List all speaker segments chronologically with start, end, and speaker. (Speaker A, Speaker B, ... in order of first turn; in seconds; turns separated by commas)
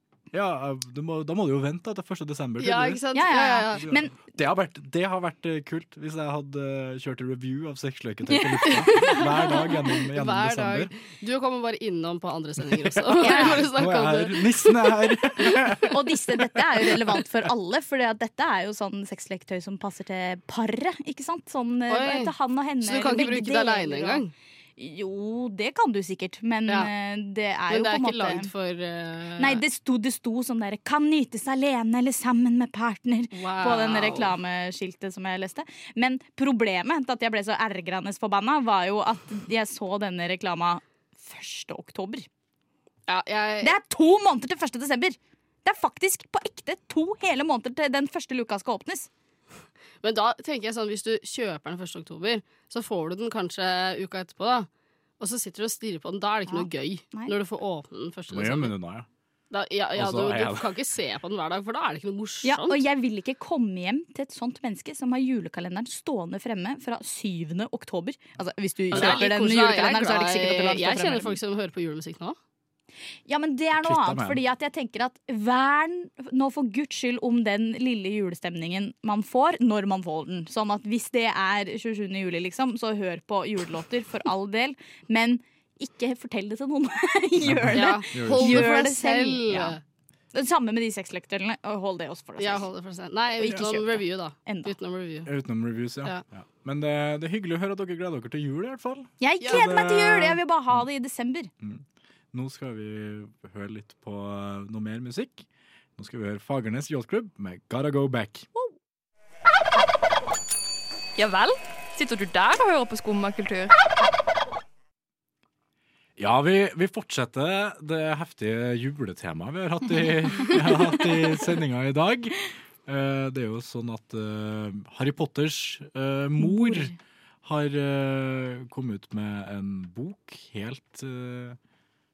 Speaker A: 0.3-3.0, Speaker B: 2.6-3.9, Speaker C: 3.1-4.1, Speaker A: 3.8-10.9, Speaker B: 8.7-15.7, Speaker A: 12.6-16.8, Speaker C: 13.2-13.7, Speaker C: 15.9-24.2, Speaker B: 21.9-24.3, Speaker C: 24.8-28.5, Speaker B: 27.7-29.6, Speaker C: 29.4-42.3, Speaker B: 33.3-34.3, Speaker B: 43.1-43.7, Speaker C: 43.6-49.1, Speaker B: 50.0-54.7, Speaker B: 55.2-58.7, Speaker C: 56.5-57.3, Speaker A: 58.3-59.1, Speaker B: 59.5-62.8, Speaker A: 59.9-60.7, Speaker C: 62.4-71.4, Speaker B: 68.9-72.3, Speaker A: 68.9-69.2, Speaker C: 73.3-89.7, Speaker A: 73.8-74.4, Speaker A: 87.4-88.8, Speaker B: 87.7-89.8, Speaker C: 90.3-92.7, Speaker B: 92.4-95.3, Speaker C: 93.4-94.7, Speaker A: 95.2-100.8, Speaker C: 99.2-101.5, Speaker A: 101.6-105.5, Speaker A: 106.0-108.5, Speaker D: 111.2-113.7, Speaker A: 116.2-131.6, Speaker C: 126.4-126.9